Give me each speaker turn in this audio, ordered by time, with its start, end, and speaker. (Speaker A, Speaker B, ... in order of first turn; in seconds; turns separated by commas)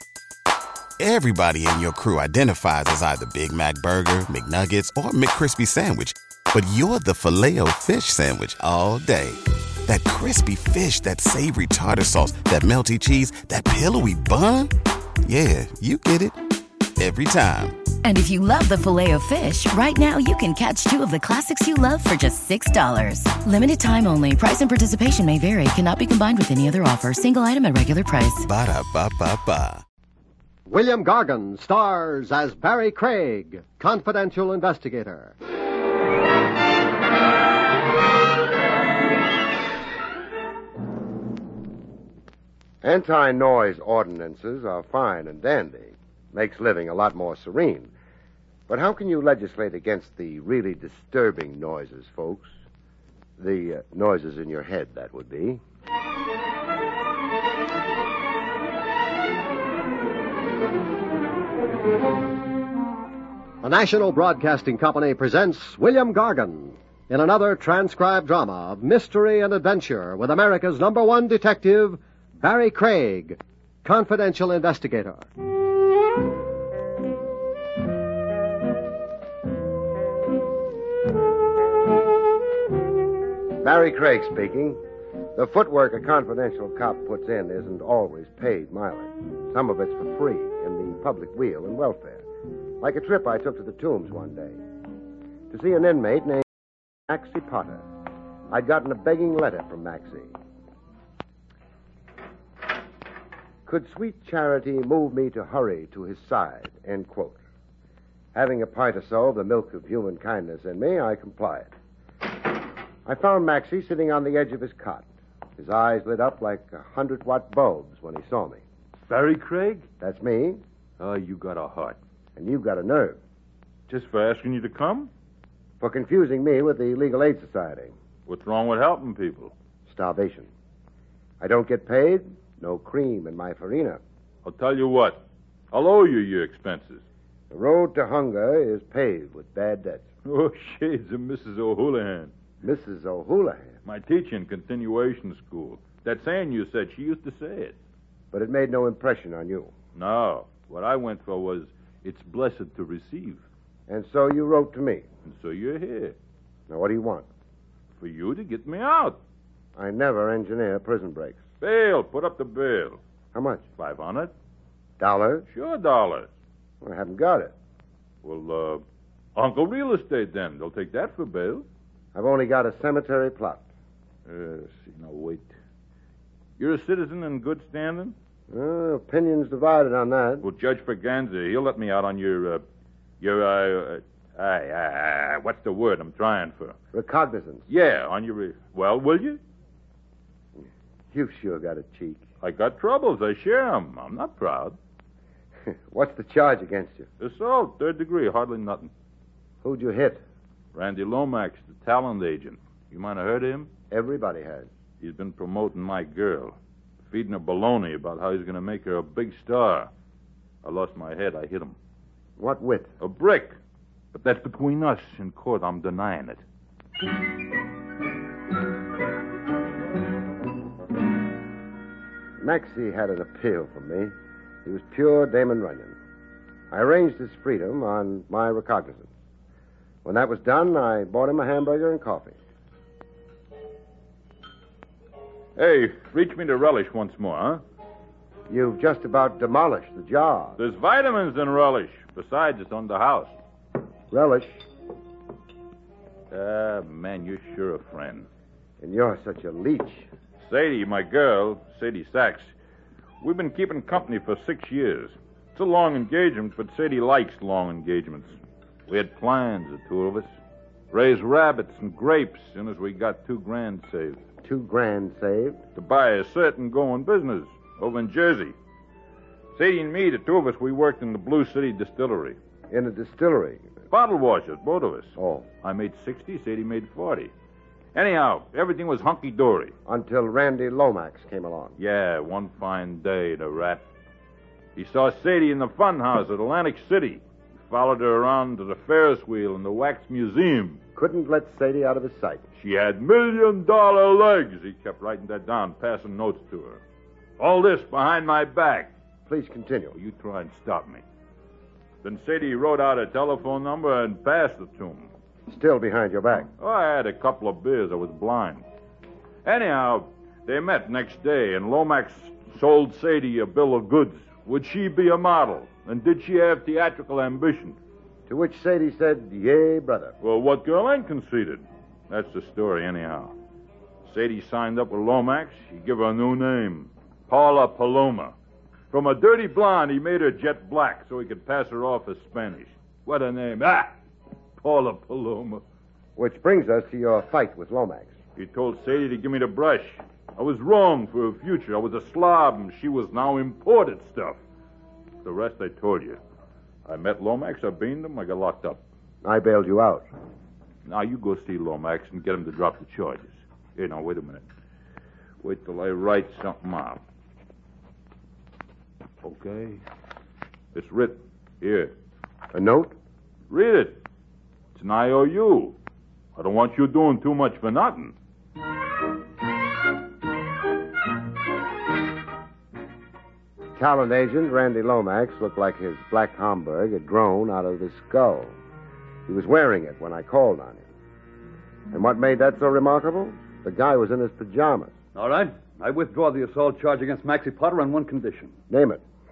Speaker A: 1.0-16.4, Speaker A: 17.0-18.0, Speaker B: 18.0-28.5, Speaker A: 28.4-29.8, Speaker C: 30.7-35.3, Speaker D: 42.8-47.9, Speaker D: 48.7-52.5, Speaker D: 53.4-55.6, Speaker C: 63.6-75.3, Speaker D: 83.6-84.8, Speaker D: 85.3-92.2, Speaker D: 92.8-94.6, Speaker D: 95.5-96.4, Speaker D: 97.1-97.8, Speaker D: 98.5-100.3, Speaker D: 103.7-107.4, Speaker D: 108.3-111.7, Speaker D: 113.1-115.1, Speaker D: 115.6-118.6, Speaker E: 119.1-119.7, Speaker D: 120.0-120.6, Speaker E: 121.0-122.0, Speaker D: 122.4-123.2, Speaker E: 123.9-125.1, Speaker D: 125.8-127.9, Speaker E: 128.3-129.5, Speaker D: 129.9-130.5, Speaker D: 131.4-134.0, Speaker E: 134.4-137.0, Speaker D: 137.5-140.0, Speaker E: 140.3-142.3, Speaker D: 142.6-143.7, Speaker E: 143.8-147.8, Speaker D: 148.3-149.7, Speaker E: 149.9-153.4, Speaker D: 153.9-155.0, Speaker E: 155.2-156.2, Speaker D: 156.7-157.3, Speaker E: 158.0-159.2, Speaker D: 159.8-161.4, Speaker E: 161.6-163.0, Speaker D: 163.3-163.6, Speaker E: 163.8-164.3, Speaker D: 165.0-165.5, Speaker E: 165.5-166.3, Speaker D: 166.8-167.5, Speaker E: 168.2-168.8, Speaker E: 169.4-171.7, Speaker D: 172.1-173.6, Speaker E: 174.3-175.5, Speaker E: 176.6-178.2, Speaker D: 178.5-180.5, Speaker E: 180.4-182.6, Speaker E: 183.2-186.8, Speaker D: 186.9-187.7, Speaker E: 187.7-189.4, Speaker D: 191.1-192.2, Speaker E: 192.4-194.8, Speaker D: 195.9-197.1, Speaker E: 197.2-198.9, Speaker D: 199.6-200.2, Speaker E: 200.7-203.7, Speaker D: 203.9-204.7, Speaker E: 205.0-206.6, Speaker E: 207.1-209.9, Speaker E: 210.6-211.8, Speaker D: 212.4-212.9, Speaker E: 213.0-213.6, Speaker E: 214.1-216.4, Speaker D: 222.4-224.1, Speaker D: 224.7-226.0, Speaker D: 226.7-229.1, Speaker D: 230.1-232.4, Speaker E: 235.6-237.6, Speaker D: 238.5-240.6, Speaker E: 240.6-243.4, Speaker D: 244.1-244.6, Speaker E: 246.3-248.3, Speaker D: 248.8-250.1, Speaker E: 250.4-252.5, Speaker E: 253.2-260.3, Speaker E: 260.9-264.2, Speaker D: 264.4-265.6, Speaker E: 265.8-268.5, Speaker E: 269.6-272.4, Speaker D: 272.7-273.6, Speaker E: 273.9-277.3, Speaker D: 275.2-275.5, Speaker E: 277.9-279.7, Speaker D: 279.9-281.8, Speaker E: 281.8-283.8, Speaker E: 284.8-290.8, Speaker D: 290.9-292.4, Speaker E: 292.6-296.8, Speaker E: 297.4-298.9, Speaker D: 299.3-300.0, Speaker E: 299.9-301.0, Speaker E: 302.0-305.1, Speaker D: 305.5-306.5, Speaker E: 306.6-308.6, Speaker E: 309.4-317.8, Speaker D: 318.3-320.2, Speaker E: 320.2-323.3, Speaker E: 324.1-328.3, Speaker E: 328.9-333.9, Speaker E: 334.6-335.6, Speaker D: 336.2-338.1, Speaker E: 338.4-344.4, Speaker E: 345.2-346.2, Speaker E: 346.9-348.8, Speaker D: 349.2-350.1, Speaker E: 350.9-354.4, Speaker E: 355.4-357.0, Speaker E: 359.2-359.8, Speaker E: 360.7-361.9, Speaker D: 362.5-362.9, Speaker E: 363.5-364.0, Speaker E: 364.8-365.8, Speaker E: 366.4-368.1, Speaker D: 373.8-378.6, Speaker D: 379.3-380.9, Speaker D: 381.9-384.9, Speaker F: 385.1-388.5, Speaker D: 388.7-389.0